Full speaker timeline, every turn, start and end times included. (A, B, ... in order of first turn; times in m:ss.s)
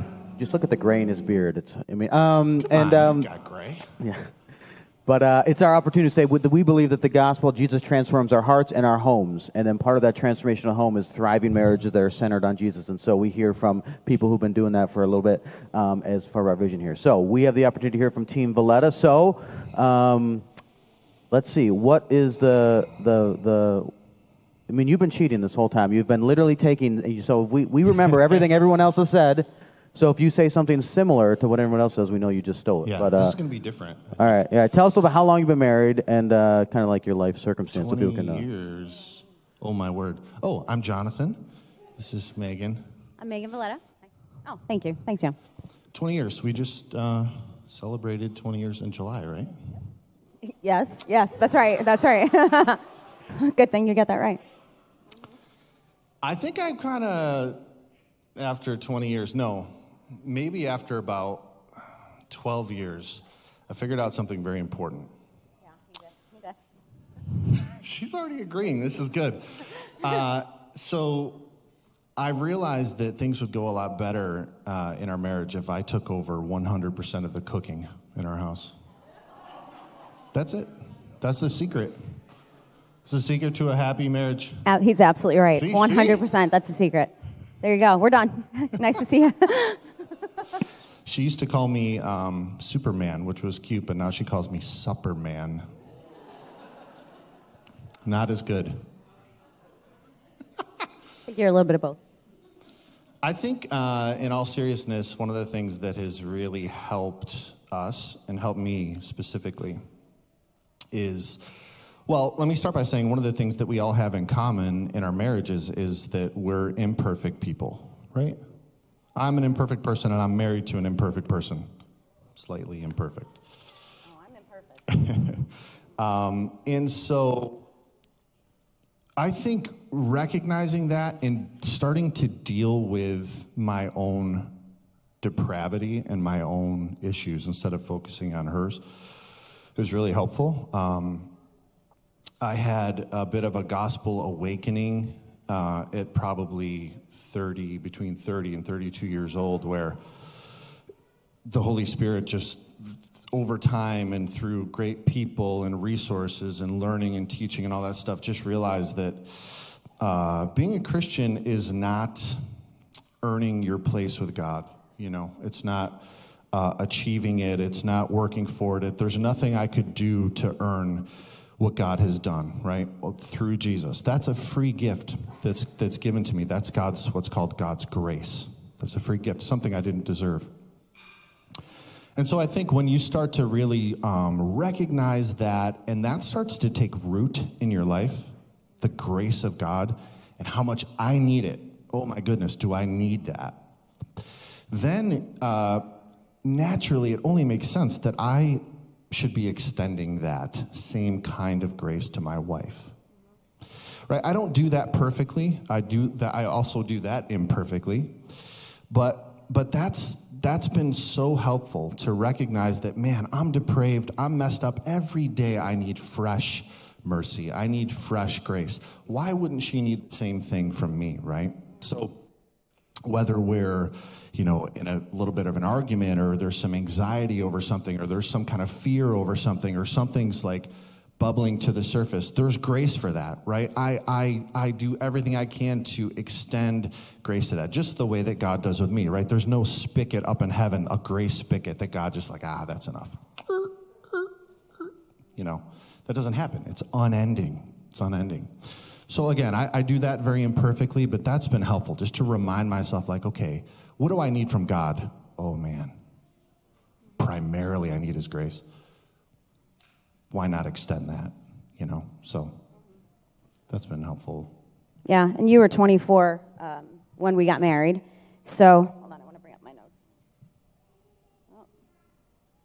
0:00.4-0:03.3 A
0:02.6-0:03.9 B
0:04.0-0:04.3 A
0:05.1-0:20.4 A
0:21.3-0:23.9 A
0:24.7-0:33.4 A
0:32.8-0:34.4 B
0:34.2-0:38.4 A
0:37.7-0:41.4 B
0:42.0-0:42.8 B
0:43.2-0:43.8 C
0:44.4-0:45.4 C
0:45.9-0:49.5 B
0:50.5-0:52.8 C
0:53.3-0:54.4 C
0:56.2-0:57.6 B
0:58.4-1:01.6 B
1:02.3-1:05.1 B
1:07.5-1:11.4 B
1:12.2-1:18.8 B
1:20.3-1:22.0 B
1:23.1-1:24.6 B
1:24.7-1:27.1 C
1:25.5-1:26.2 B
1:27.6-1:29.8 C
1:31.0-1:35.6 B
1:38.0-1:38.8 B
1:41.3-1:42.0 C
1:43.2-1:49.8 B
1:50.9-1:51.4 B
1:52.1-1:58.4 B
1:59.2-2:01.7 B
2:02.4-2:03.4 B
2:04.2-2:04.8 C
2:04.9-2:05.4 B
2:06.0-2:07.6 B
2:09.2-2:14.5 B
2:15.2-2:18.8 B
2:19.8-2:21.3 B
2:22.4-2:30.0 B
2:31.5-2:32.7 B
2:33.3-2:42.4 B
2:43.2-2:46.0 B
2:46.5-3:00.5 B
3:02.2-3:13.6 B
3:14.7-3:15.8 B
3:16.4-3:23.0 B
3:24.1-3:28.2 B
3:28.9-3:42.2 B
3:43.1-4:04.3 B
4:05.4-4:08.5 B
4:09.1-4:15.9 B
4:17.2-4:18.6 B
4:20.3-4:22.5 B
4:23.7-4:24.5 B
4:25.1-4:30.0 C